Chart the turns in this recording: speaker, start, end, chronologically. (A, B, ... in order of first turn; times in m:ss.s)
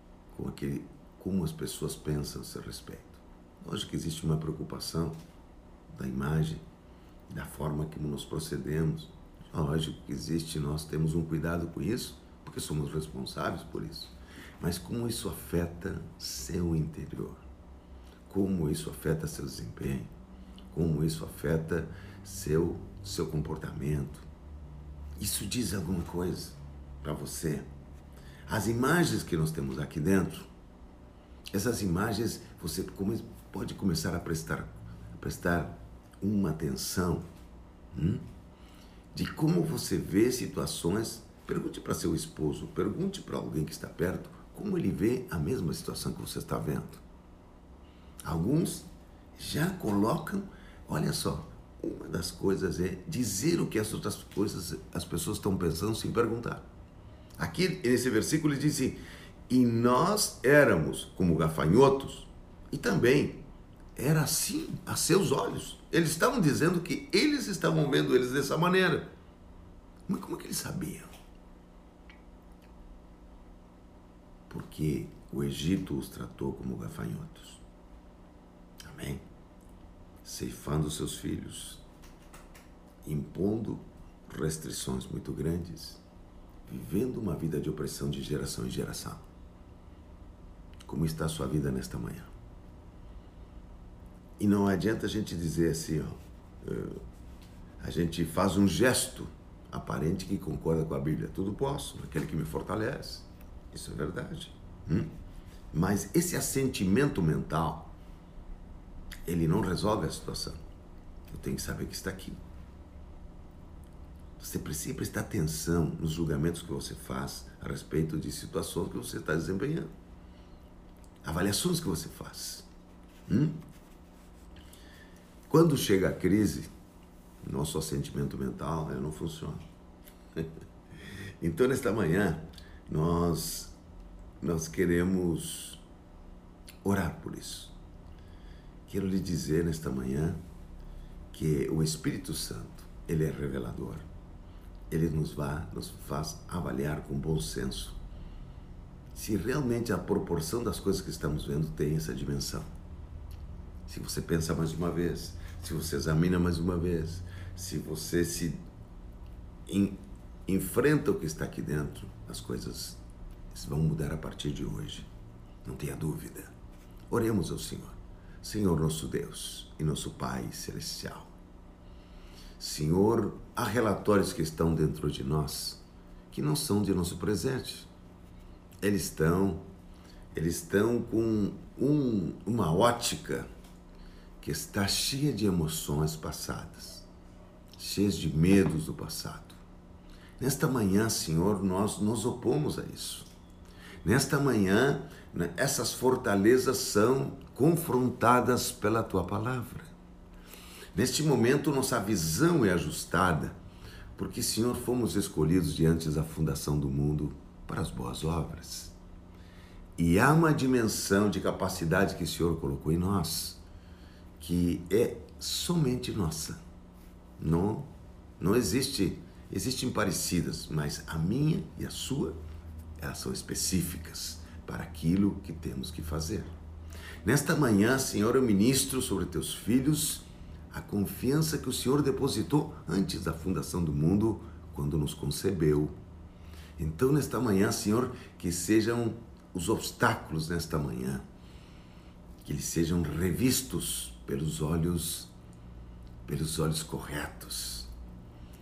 0:00.3-0:05.2 A
0:05.9-0:06.6 A
0:07.3-0:17.5 A
0:18.3-0:20.1 A
0:20.7-0:24.2 A
0:25.2-0:27.7 A
0:28.5-0:30.5 A
0:31.5-0:37.3 A
0:37.9-0:38.2 A
0:39.1-0:47.0 A
0:48.2-0:56.6 A
0:57.4-1:09.1 A
1:10.1-1:11.1 A
1:14.5-1:17.6 A
1:18.8-1:19.2 A
1:20.2-1:21.8 A
1:23.0-1:26.0 A
1:26.7-1:29.3 A
1:30.8-1:32.3 A
1:34.4-1:37.0 A
1:37.8-1:45.1 A
1:45.7-1:47.9 A
1:49.2-1:50.6 A
1:51.3-1:52.4 A
1:54.4-1:59.9 A
2:01.2-2:02.7 A
2:03.3-2:03.6 A
2:05.5-2:06.7 A
2:07.4-2:09.6 A
2:11.4-2:13.8 A
2:14.4-2:15.8 A
2:16.8-2:17.8 A
2:18.8-2:20.4 A
2:21.3-2:24.1 A
2:24.9-2:28.0 A
2:29.1-2:32.7 A
2:33.9-2:38.6 A
2:39.7-2:43.0 A
2:43.5-2:45.1 A
2:45.6-2:46.5 A
2:47.1-2:51.3 A
2:52.6-2:57.9 A
2:58.8-2:59.6 A
3:00.3-3:03.5 A
3:04.4-3:07.1 A
3:07.8-3:09.6 A
3:10.4-3:13.3 A
3:14.0-3:19.9 A
3:20.9-3:23.6 A
3:24.2-3:28.9 A
3:30.0-3:33.6 A
3:34.4-3:36.6 A
3:37.4-3:42.4 A
3:43.0-3:46.5 A
3:47.2-3:56.0 A
3:56.8-4:01.2 A
4:02.4-4:05.3 A
4:06.2-4:07.9 A